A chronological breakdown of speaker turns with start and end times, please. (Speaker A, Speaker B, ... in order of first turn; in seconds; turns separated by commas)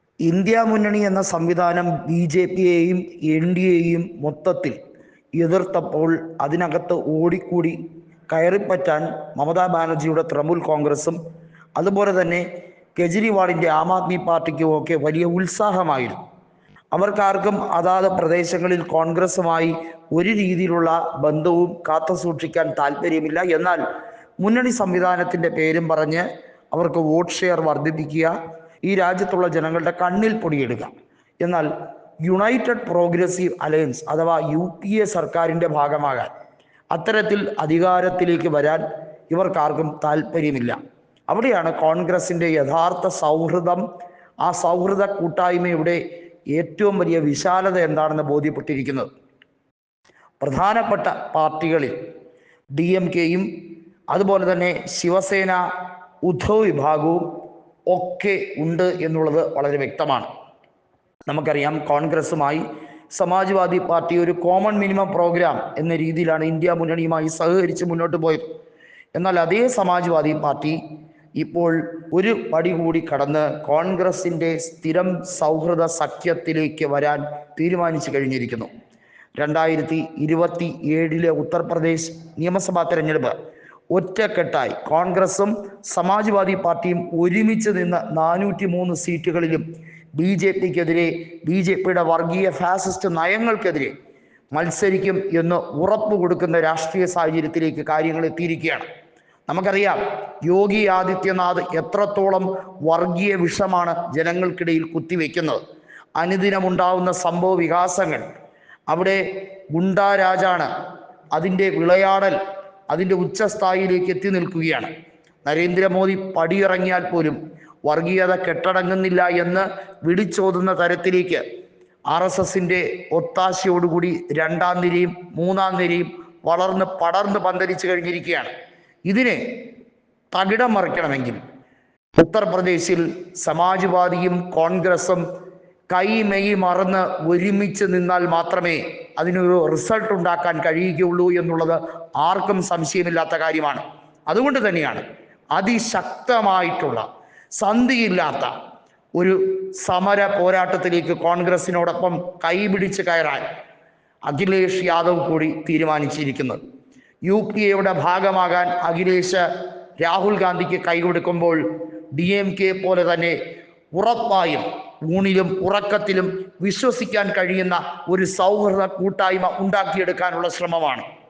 Speaker A: 0.2-4.8, Speaker A: 5.4-7.8, Speaker A: 8.3-11.2, Speaker A: 11.8-12.4, Speaker A: 12.9-16.2, Speaker A: 16.9-23.8, Speaker A: 24.4-28.3, Speaker A: 28.8-31.7, Speaker A: 32.2-36.3, Speaker A: 36.9-40.8, Speaker A: 41.3-43.8, Speaker A: 44.4-46.0, Speaker A: 46.5-49.1, Speaker A: 50.4-51.9, Speaker A: 52.8-53.5, Speaker A: 54.1-55.6, Speaker A: 56.2-57.2, Speaker A: 57.9-60.3, Speaker A: 61.3-68.4, Speaker A: 69.1-70.8, Speaker A: 71.4-78.7, Speaker A: 79.4-83.3, Speaker A: 83.9-89.6, Speaker A: 90.1-93.9, Speaker A: 94.5-98.8, Speaker A: 99.5-105.6, Speaker A: 106.2-108.2, Speaker A: 108.9-109.2, Speaker A: 109.7-110.7, Speaker A: 111.3-112.4, Speaker A: 112.9-114.9, Speaker A: 115.4-121.4, Speaker A: 122.1-128.5, Speaker A: 129.1-129.4, Speaker A: 130.3-131.4, Speaker A: 132.2-135.2, Speaker A: 135.9-145.0, Speaker A: 145.5-147.0, Speaker A: 147.6-148.5, Speaker A: 149.2-153.4, Speaker A: 154.3-156.6, Speaker A: 157.2-159.4, Speaker A: 160.0-161.6, Speaker A: 162.1-163.3, Speaker A: 163.9-171.0